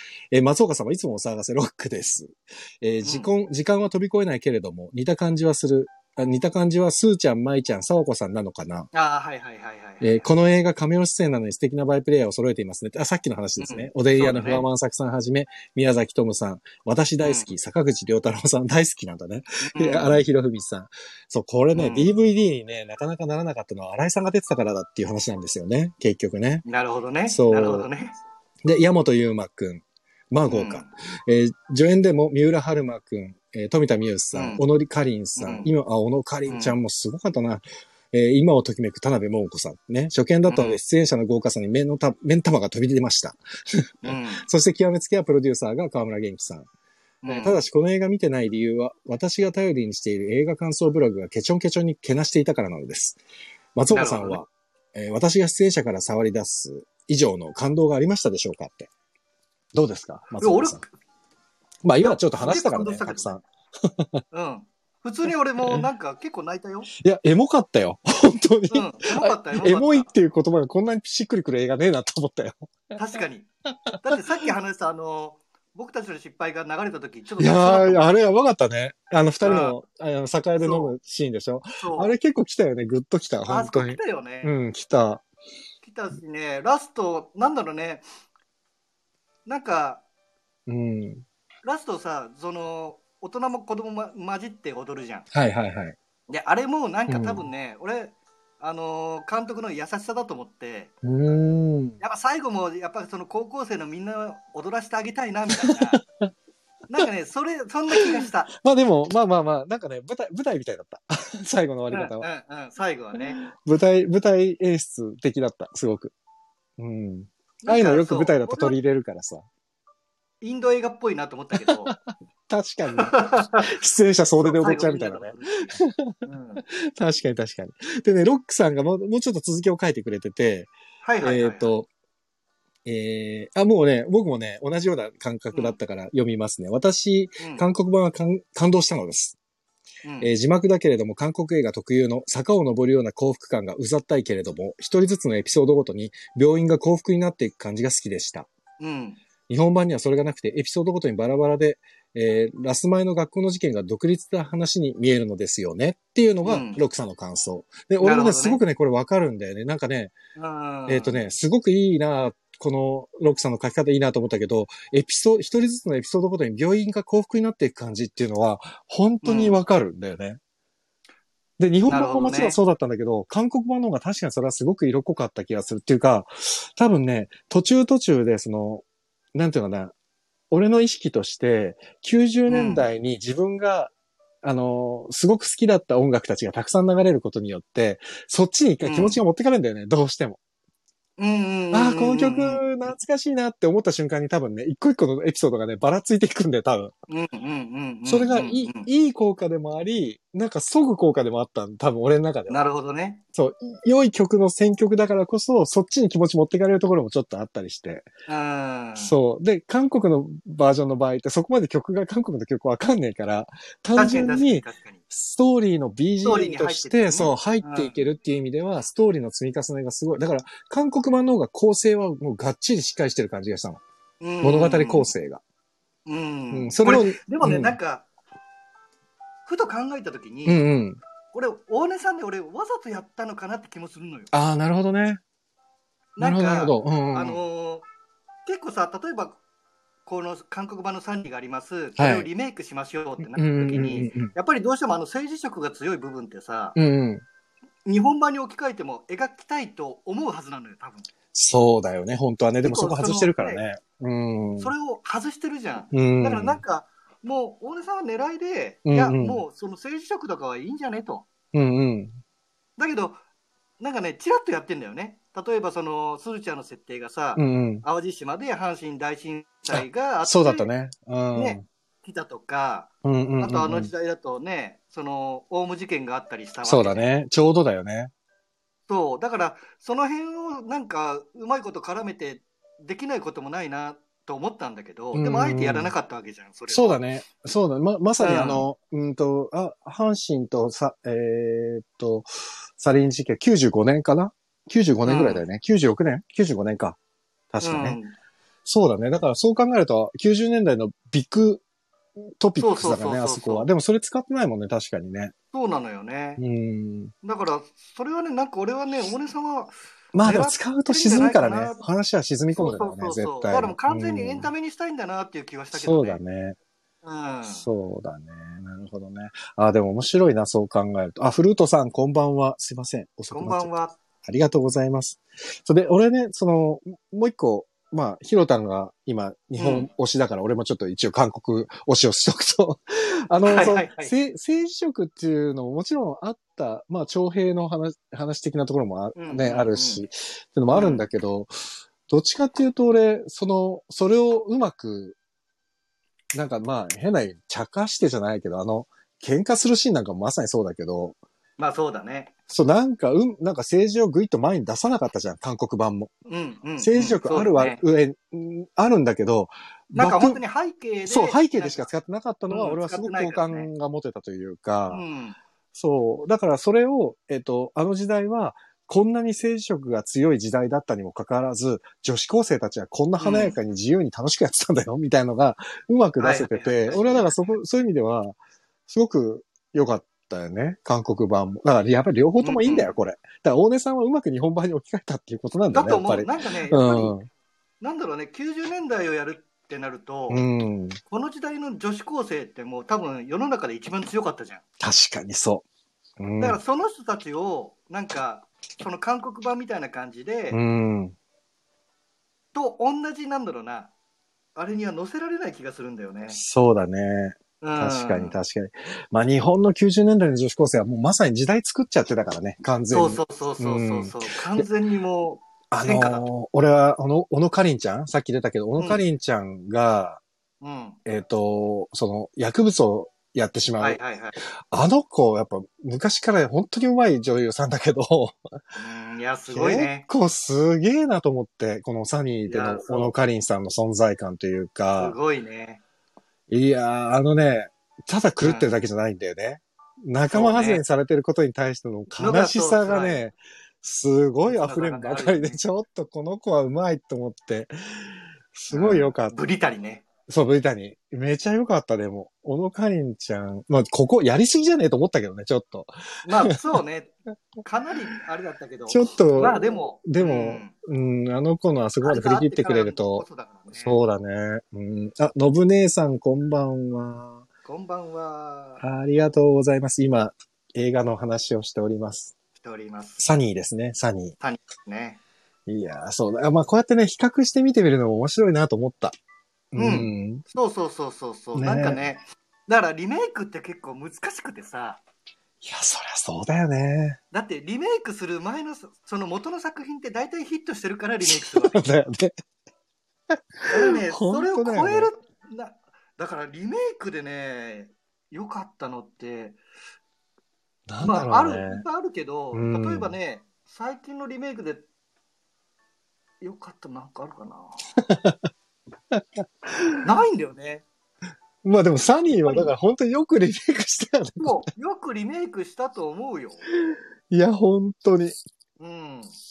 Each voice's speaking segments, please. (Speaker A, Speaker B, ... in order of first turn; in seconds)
Speaker A: 0.3-8.9, 10.0-26.6, 27.3-27.9, 28.6-43.4, 44.0-46.7, 47.3-53.2, 53.8-58.9, 59.7-60.8, 61.8-64.2, 65.6-65.9, 67.0-73.2, 73.9-74.2, 77.4-85.2, 90.7-91.2, 95.3-96.0, 97.1-97.5, 101.0-102.0, 105.5-106.3, 107.9-112.3, 113.2-116.1, 116.8-119.5, 121.5-131.9, 132.8-139.4, 140.2-148.5, 149.5-160.2, 160.9-170.4, 171.6-179.9, 180.5-183.9, 184.4-190.4, 191.7-196.9, 198.1-202.6, 203.3-208.1, 209.0-223.8, 224.4-225.4, 226.5-227.8, 230.5-231.0, 234.3-235.2, 236.2-237.4, 242.0-242.3, 243.3-244.3, 246.8-247.2, 251.3-254.7, 255.9-256.6, 258.9-259.4, 261.5-262.2, 267.4-267.8, 269.7-271.6, 273.0-273.9, 276.6-278.1, 285.1-285.9, 286.7-292.3, 292.8-297.0, 297.5-298.0, 298.7-301.6, 302.4-305.3, 306.4-307.1, 310.1-314.5, 315.7-316.6, 317.4-323.7, 324.2-341.5, 342.1-345.2, 346.3-351.2, 352.5-356.1, 356.8-360.4, 361.1-365.0, 365.8-378.4, 378.9-387.3, 390.3-391.0, 394.8-395.6, 396.2-396.6, 400.5-401.2, 406.3-414.7, 415.7-420.2, 421.1-424.0, 424.7-428.4, 429.5-435.2, 436.5-447.7, 448.5-449.4, 450.3-455.9, 458.9-467.4, 468.8-472.4, 473.2-474.4, 475.7-479.2, 479.7-480.4, 481.6-482.0, 485.6-487.2, 491.2-492.4, 493.6-495.1, 500.9-501.8, 502.5-503.1, 508.0-508.4, 509.1-510.1, 511.6-514.7, 516.8-518.4
Speaker B: 3.0-3.3, 8.9-10.3, 13.6-14.7, 17.2-17.5, 19.6-20.2, 21.7-22.1, 26.6-28.1, 30.5-30.9, 34.3-34.6, 35.4-35.7, 36.5-36.8, 40.5-40.8, 44.0-44.5, 47.2-47.6, 53.9-54.4, 60.4-60.9, 62.0-63.4, 64.3-66.9, 68.7-70.1, 72.9-73.5, 74.0-78.1, 79.4-79.8, 80.6-81.0, 81.8-82.2, 83.5-84.5, 85.8-88.0, 89.5-90.0, 91.6-95.3, 96.3-100.9, 102.0-106.0, 106.9-108.5, 111.9-113.4, 117.7-118.8, 120.4-121.9, 123.0-123.7, 124.4-126.7, 131.0-131.8, 135.5-135.8, 137.4-137.7, 140.0-140.3, 148.8-149.2, 156.4-156.8, 158.0-158.6, 160.4-161.3, 169.2-169.6, 171.9-172.6, 182.5-182.9, 188.8-189.2, 191.2-192.6, 197.1-198.9, 202.5-203.2, 208.3-209.2, 213.9-215.0, 216.2-217.9, 224.2-225.1, 226.1-228.1, 229.5-230.6, 231.3-234.3, 236.2-237.9, 238.5-239.4, 240.1-246.8, 247.9-251.1, 252.6-253.6, 254.6-261.3, 262.8-263.2, 263.8-270.7, 271.3-277.1, 278.9-287.1, 288.2-288.7, 295.1-295.4, 297.6-298.1, 302.6-303.7, 305.5-306.4, 307.2-311.8, 312.6-316.2, 317.0-317.7, 323.3-324.0, 329.6-329.9, 333.4-334.1, 339.2-340.0, 340.7-341.1, 351.6-352.3, 356.3-357.8, 359.9-361.9, 362.5-363.7, 364.9-365.4, 373.2-373.6, 376.2-377.5, 382.4-382.9, 385.7-387.1, 387.8-390.4, 391.1-394.6, 396.4-400.6, 402.5-403.9, 404.6-406.4, 407.6-408.4, 412.9-416.3, 418.8-419.0, 420.6-421.0, 423.8-424.4, 428.8-430.1, 432.5-433.1, 435.0-435.8, 438.4-438.7, 440.3-440.8, 442.2-443.2, 444.4-445.6, 448.7-450.0, 456.2-460.8, 462.0-464.0, 467.6-468.8, 472.6-473.2, 474.4-475.2, 479.8-485.0, 487.3-491.8, 493.7-499.6, 501.0-504.9, 506.4-507.8, 510.0-510.9, 512.4-512.7, 514.4-516.6, 518.8-519.4